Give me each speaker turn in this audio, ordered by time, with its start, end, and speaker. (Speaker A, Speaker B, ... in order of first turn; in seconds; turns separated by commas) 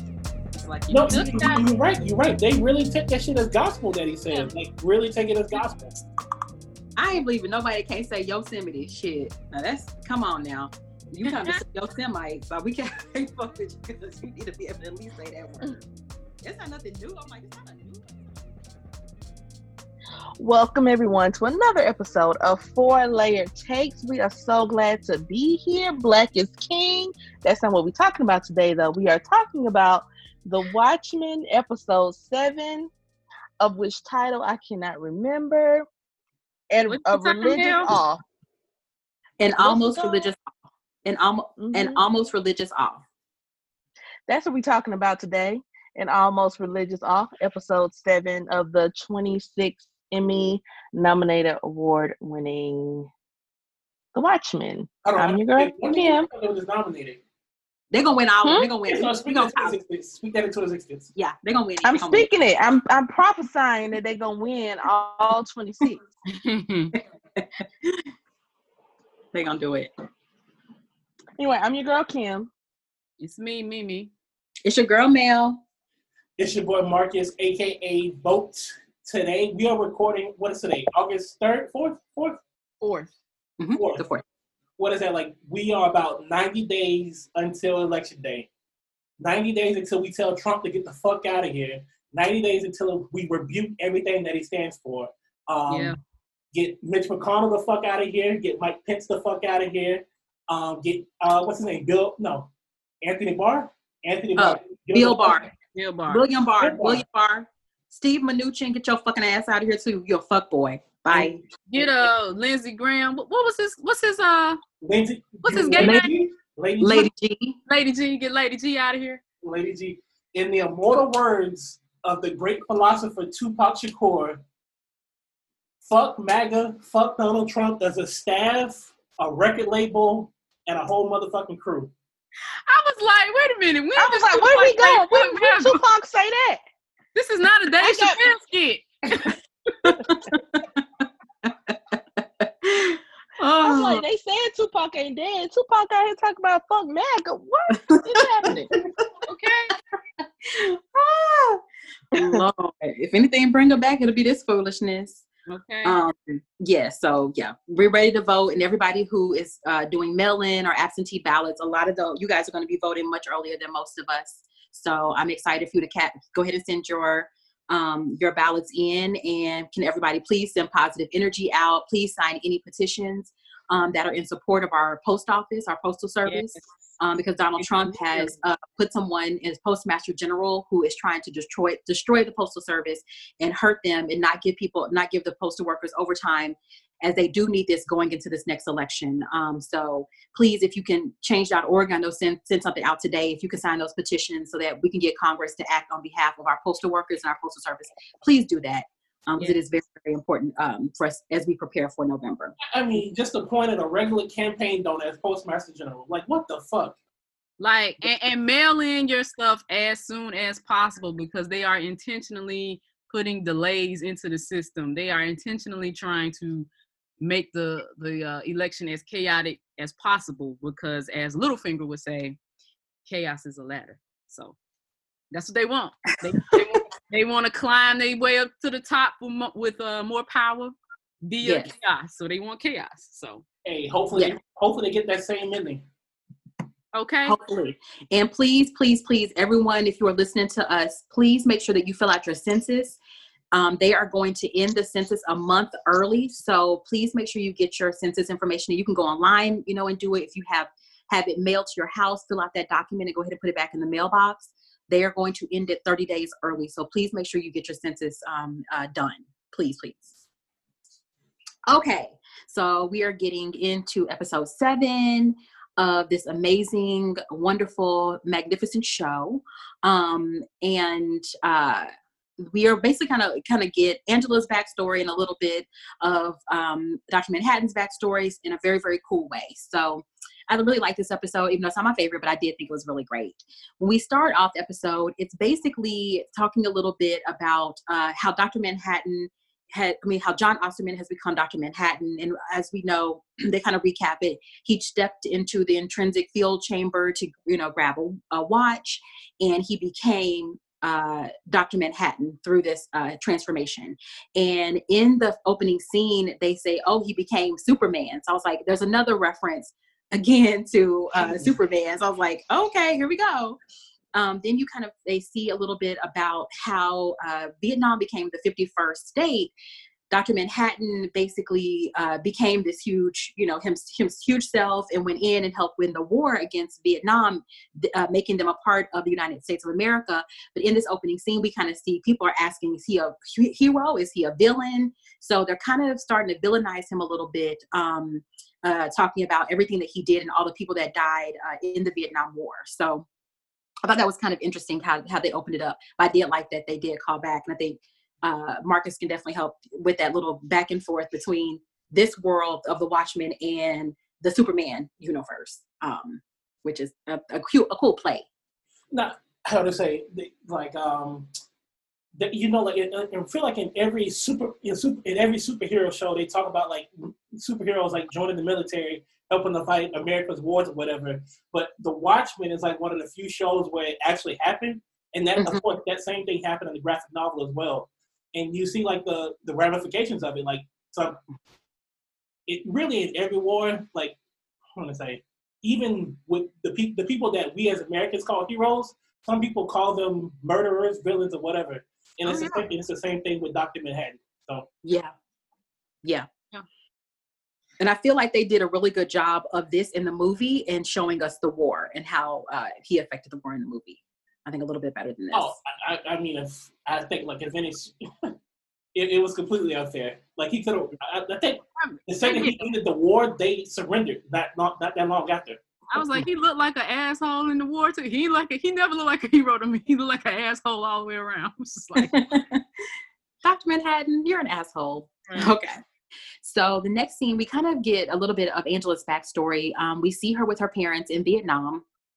Speaker A: 0.5-1.7, Speaker B: 0.9-6.0, Speaker C: 7.0-15.8, Speaker C: 16.4-18.6, Speaker D: 20.4-32.9, Speaker D: 33.6-35.9, Speaker D: 36.7-38.2, Speaker A: 36.9-38.0, Speaker C: 39.4-40.4, Speaker D: 39.6-40.3, Speaker C: 41.0-43.0, Speaker D: 41.6-42.0, Speaker D: 44.3-53.1, Speaker D: 54.1-56.3, Speaker B: 55.0-57.2, Speaker C: 57.9-59.8, Speaker D: 58.4-58.7, Speaker B: 58.9-61.1, Speaker C: 61.1-62.3, Speaker D: 61.8-66.0, Speaker A: 66.3-66.9, Speaker C: 67.0-68.0, Speaker C: 69.3-69.9, Speaker D: 71.4-72.5, Speaker A: 73.2-74.1, Speaker C: 74.7-75.6, Speaker B: 76.4-82.4, Speaker A: 82.8-83.1, Speaker C: 83.6-84.2, Speaker B: 83.8-84.0, Speaker B: 84.8-88.5, Speaker B: 89.2-96.0, Speaker A: 95.7-96.0, Speaker B: 96.5-102.5, Speaker B: 103.0-105.5, Speaker C: 104.4-105.5, Speaker A: 105.7-106.2, Speaker C: 106.1-111.4, Speaker B: 106.6-107.0, Speaker B: 111.1-111.4, Speaker A: 111.7-114.6, Speaker B: 114.8-117.1, Speaker A: 115.4-116.1, Speaker C: 115.8-116.1, Speaker C: 116.8-117.6, Speaker A: 117.7-119.2, Speaker B: 119.4-124.4, Speaker B: 125.8-131.9, Speaker A: 132.7-135.8, Speaker D: 134.0-136.6, Speaker A: 137.2-139.4, Speaker D: 137.8-138.3, Speaker C: 139.8-140.8, Speaker C: 141.4-143.0, Speaker C: 143.5-144.0, Speaker D: 143.6-148.7, Speaker A: 149.3-149.8, Speaker C: 150.5-151.6, Speaker C: 152.1-155.2, Speaker D: 152.2-152.4, Speaker A: 155.5-156.0, Speaker C: 155.8-202.6, Speaker A: 176.3-176.6, Speaker A: 177.6-178.3, Speaker B: 202.7-207.0, Speaker A: 207.6-216.7, Speaker A: 217.2-222.4, Speaker A: 223.1-224.6, Speaker A: 225.3-233.4, Speaker C: 226.5-226.8, Speaker C: 231.4-231.7, Speaker B: 233.7-235.8, Speaker A: 236.9-237.4, Speaker C: 237.3-243.0, Speaker C: 243.5-260.1, Speaker C: 261.7-313.6, Speaker C: 314.1-319.5, Speaker C: 320.1-343.1, Speaker C: 343.8-358.3, Speaker B: 358.9-361.3, Speaker B: 362.2-381.2, Speaker C: 375.4-375.6, Speaker B: 382.5-384.2, Speaker B: 384.8-394.7, Speaker C: 392.3-392.6, Speaker C: 394.8-395.1, Speaker C: 396.0-396.6, Speaker C: 397.8-405.6, Speaker B: 405.3-408.3, Speaker B: 408.9-415.6, Speaker A: 411.8-412.7, Speaker A: 415.9-422.2, Speaker C: 422.0-422.6, Speaker C: 423.4-425.8, Speaker C: 426.4-431.8